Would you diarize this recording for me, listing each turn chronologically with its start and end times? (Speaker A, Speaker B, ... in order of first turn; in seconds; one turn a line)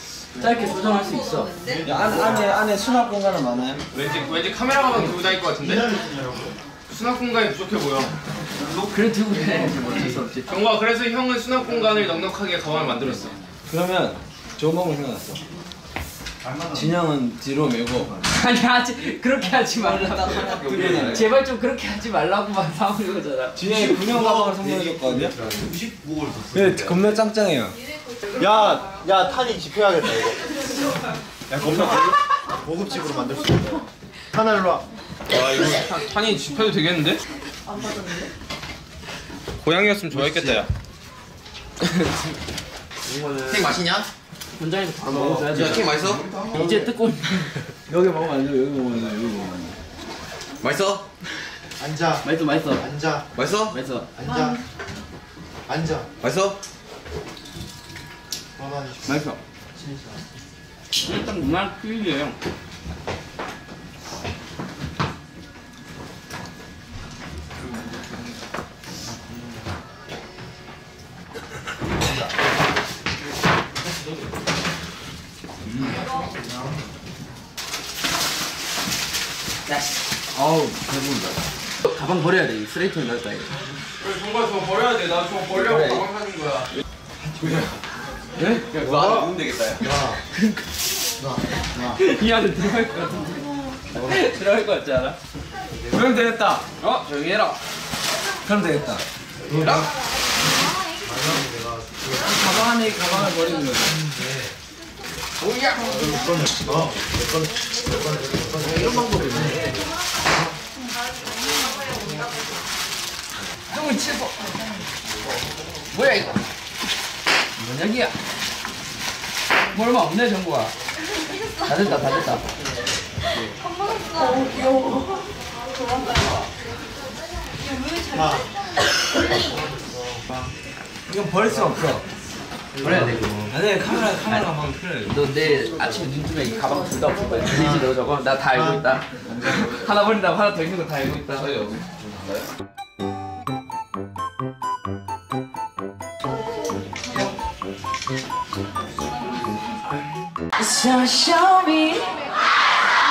Speaker A: 0.3-1.5
Speaker B: 1.8-3.8
Speaker C: 1.8-2.2
Speaker D: 3.9-5.8
Speaker C: 5.6-6.5
Speaker D: 6.9-8.1
Speaker A: 8.9-10.5
Speaker D: 10.5-13.3
Speaker B: 13.7-15.4
Speaker B: 16.7-18.3
Speaker A: 18.3-23.6
Speaker E: 19.9-21.2
Speaker B: 20.1-21.3
Speaker B: 23.6-25.4
Speaker E: 25.5-26.9
Speaker B: 26.5-27.8
Speaker C: 28.4-30.4
Speaker C: 31.5-32.1
Speaker C: 32.6-34.8
Speaker D: 35.3-37.2
Speaker D: 39.6-40.7
Speaker A: 43.0-43.8
Speaker E: 43.5-44.1
Speaker A: 44.6-45.9
Speaker E: 45.4-46.2
Speaker C: 45.5-45.9
Speaker A: 46.5-47.5
Speaker B: 46.5-46.9
Speaker B: 47.9-49.8
Speaker E: 50.6-51.0
Speaker C: 51.8-52.2
Speaker A: 52.2-52.9
Speaker C: 52.8-53.3
Speaker E: 53.3-53.7
Speaker A: 53.6-54.1
Speaker C: 54.1-54.6
Speaker C: 55.7-56.1
Speaker E: 56.2-56.6
Speaker C: 58.6-59.2
Speaker A: 59.0-59.4
Speaker C: 59.7-60.2
Speaker A: 61.0-62.4
Speaker A: 79.7-79.9
Speaker B: 80.3-81.3
Speaker A: 81.8-83.6
Speaker D: 84.0-86.7
Speaker A: 85.6-86.0
Speaker C: 87.2-87.7
Speaker A: 88.4-88.6
Speaker E: 88.7-89.9
Speaker C: 88.7-90.2
Speaker A: 90.3-90.6
Speaker C: 91.2-92.0
Speaker A: 91.8-95.2
Speaker B: 95.9-96.6
Speaker A: 96.8-97.6
Speaker B: 98.4-99.0
Speaker C: 99.5-99.8
Speaker C: 101.3-102.0
Speaker B: 102.2-104.0
Speaker A: 105.4-105.9
Speaker C: 106.2-107.2
Speaker C: 107.9-109.6
Speaker B: 109.1-109.6
Speaker A: 113.7-114.5
Speaker A: 115.9-116.4
Speaker A: 117.6-118.1
Speaker A: 119.7-120.7
Speaker A: 121.6-122.4
Speaker C: 128.1-128.4
Speaker C: 130.1-130.4
Speaker B: 131.1-132.0
Speaker A: 132.8-133.5
Speaker B: 133.5-135.1
Speaker A: 135.1-141.5
Speaker E: 139.3-139.8
Speaker E: 141.3-142.5
Speaker A: 150.6-152.1